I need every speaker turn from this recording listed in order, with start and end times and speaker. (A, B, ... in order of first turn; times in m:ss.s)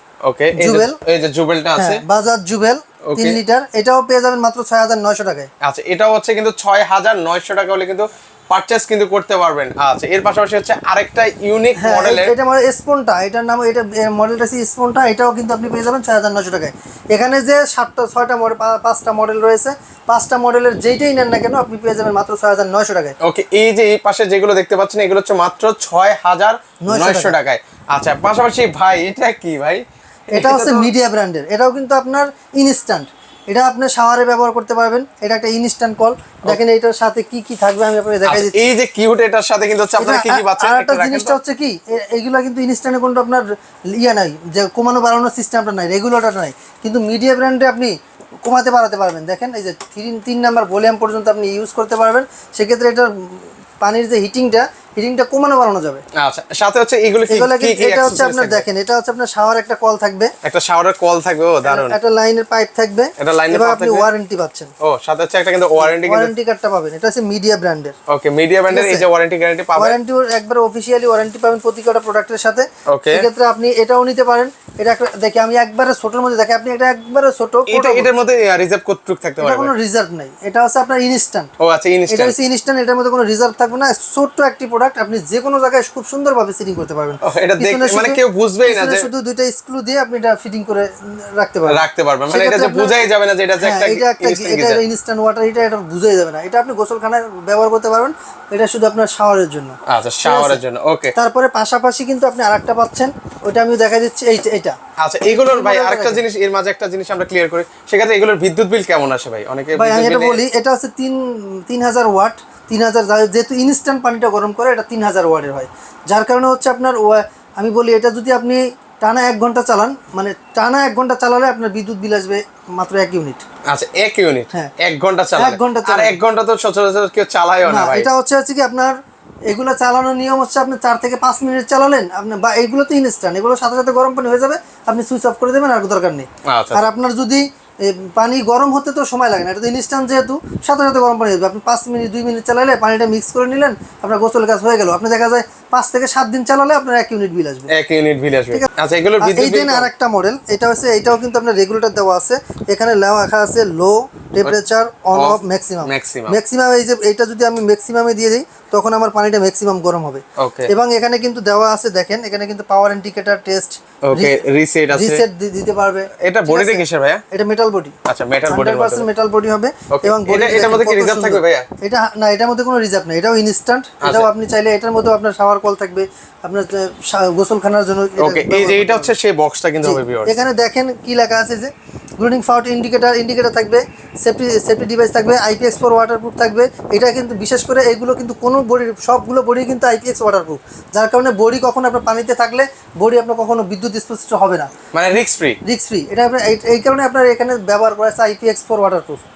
0:00.2-0:02.0 A
0:00.5-0:01.0 B
0:01.8-0:05.5 B
0:03.1-0:03.4 A
0:05.6-0:12.4 A
0:11.8-0:23.2 B
0:23.2-0:30.9 A
0:26.8-0:27.4 B
0:30.3-0:38.6 B
0:38.2-0:41.4 A
0:40.0-0:56.0 B
0:56.2-0:58.6 A
0:57.3-1:00.3 B
1:00.4-1:02.0 A
1:01.6-1:04.7 B
1:03.2-1:04.1 A
1:04.8-1:06.3 A
1:05.8-1:08.0 B
1:08.1-1:10.0 A
1:08.7-1:09.1 B
1:09.8-1:18.1 B
1:12.9-1:13.3 A
1:17.7-1:19.7 A
1:19.4-1:21.5 B
1:21.6-1:22.4 A
1:22.1-1:33.0 B
1:27.2-1:29.1 A
1:31.7-1:34.8 A
1:33.6-1:40.6 B
1:39.9-1:41.2 A
1:41.2-1:46.2 B
1:45.0-1:50.4 A
1:49.8-2:03.4 B
2:03.7-2:08.1 A
2:05.4-2:06.2 B
2:07.6-2:09.0 B
2:09.5-2:27.7 B
2:16.4-2:16.9 A
2:27.7-2:29.9 A
2:29.2-2:44.4 B
2:35.1-2:36.4 A
2:40.4-2:40.7 A
2:44.0-2:45.3 A
2:44.9-2:48.0 B
2:46.2-2:47.2 A
2:48.1-2:49.1 A
2:48.5-2:59.1 B
2:49.9-2:51.7 A
2:54.0-2:54.3 A
2:58.2-3:00.4 A
2:59.8-3:14.7 B
3:14.9-3:15.6 A
3:15.6-3:19.2 B